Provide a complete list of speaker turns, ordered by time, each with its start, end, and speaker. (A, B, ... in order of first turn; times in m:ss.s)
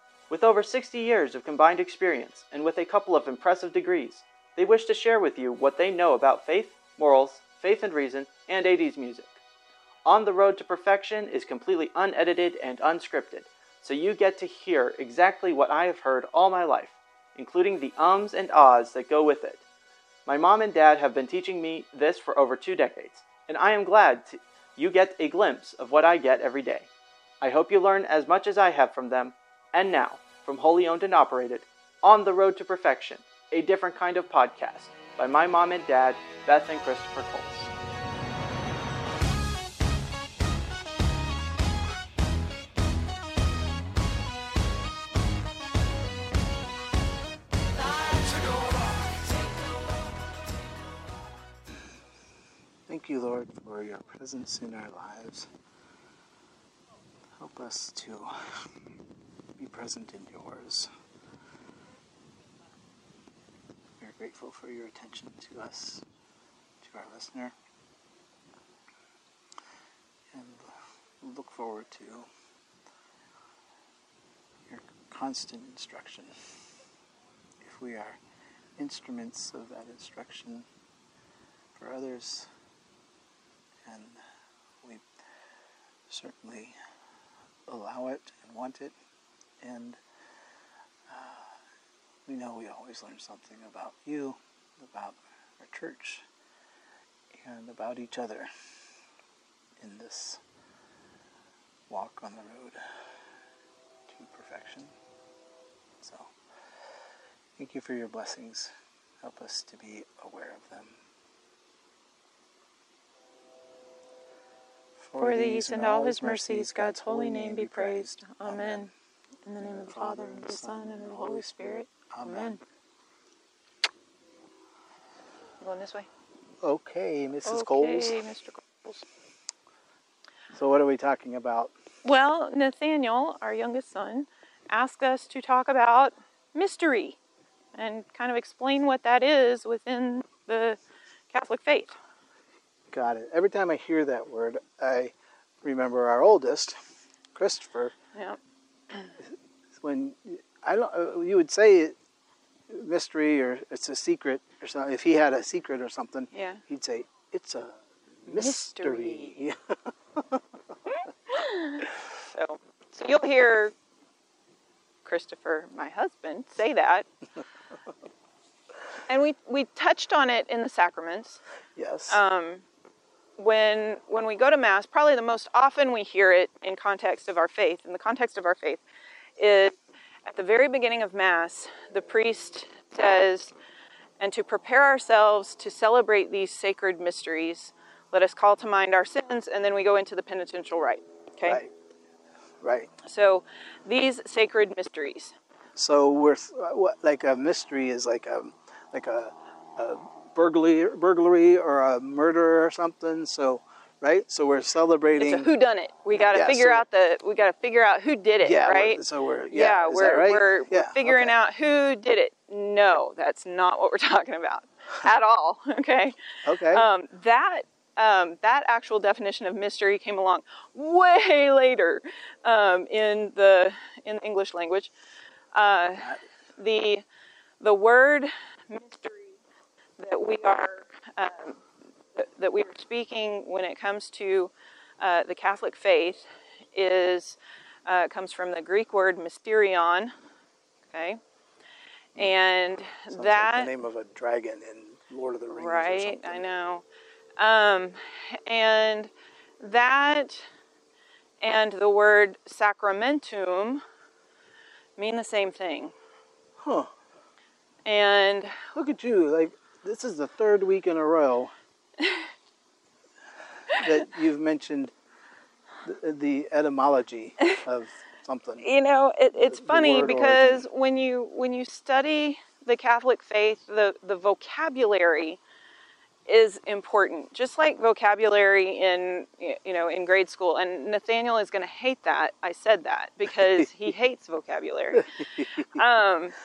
0:00.3-0:09.4 A
0:10.0-0:19.6 A
0:20.2-0:26.9 A
0:27.4-0:37.7 A
0:52.9-0:55.5 B
0:57.4-0:58.3 B
0:59.6-1:00.9 B
1:04.0-1:06.0 B
1:06.8-1:07.5 B
1:10.3-1:10.7 B
1:11.2-1:12.3 B
1:14.7-1:16.3 B
1:17.6-1:18.2 B
1:18.8-1:20.6 B
1:21.8-1:22.5 B
1:23.8-1:24.2 B
1:26.1-1:26.7 B
1:27.7-1:28.9 B
1:29.6-1:30.0 B
1:31.1-1:31.4 B
1:32.2-1:36.2 B
1:37.4-1:38.5 B
1:39.8-1:40.4 B
1:41.9-1:42.8 B
1:44.1-1:44.9 B
1:46.0-1:46.3 B
1:47.6-1:50.9 B
1:55.0-1:58.9 B
1:55.2-1:58.9 C
1:59.4-2:02.6 C
1:59.6-2:02.6 B
2:05.6-2:06.1 C
2:06.6-2:08.2 B
2:07.4-2:09.0 C
2:10.5-2:11.7 B
2:12.0-2:17.2 C
2:17.7-2:20.8 C
2:21.3-2:22.0 C
2:22.9-2:26.8 B
2:27.3-2:27.9 B
2:28.1-2:28.4 C
2:29.8-2:31.9 B
2:32.7-2:40.4 B
2:36.3-2:36.6 C
2:38.2-2:39.4 C
2:41.3-2:43.7 C
2:45.0-2:47.0 C
2:49.1-2:51.4 C
2:51.8-2:52.2 B
2:52.1-2:52.6 C
2:53.4-2:58.8 C
2:59.4-2:59.7 C
3:00.2-3:03.5 C
3:04.2-3:11.6 C
3:11.4-3:11.7 B
3:12.6-3:12.9 B
3:13.0-3:15.3 C
3:15.8-3:25.5 B
3:25.2-3:44.9 C
3:26.1-3:26.8 B
3:28.4-3:31.3 B
3:36.4-3:36.8 B
3:45.5-3:47.0 C
3:47.6-3:49.4 C
3:50.0-3:51.6 C
3:52.1-4:00.1 C
4:00.9-4:01.2 C
4:02.2-4:03.7 C
4:03.1-4:06.4 B
4:05.5-4:06.8 C
4:07.4-4:10.4 C
4:11.4-4:13.8 C
4:15.0-4:15.9 C
4:16.6-4:16.9 B
4:17.8-4:18.7 C
4:18.7-4:21.5 B
4:22.0-4:22.3 C
4:23.7-4:24.9 B
4:25.8-4:28.7 B
4:28.6-4:35.4 C
4:29.4-4:30.6 B
4:36.3-4:46.4 C
4:43.4-4:43.7 B
4:44.9-4:45.6 B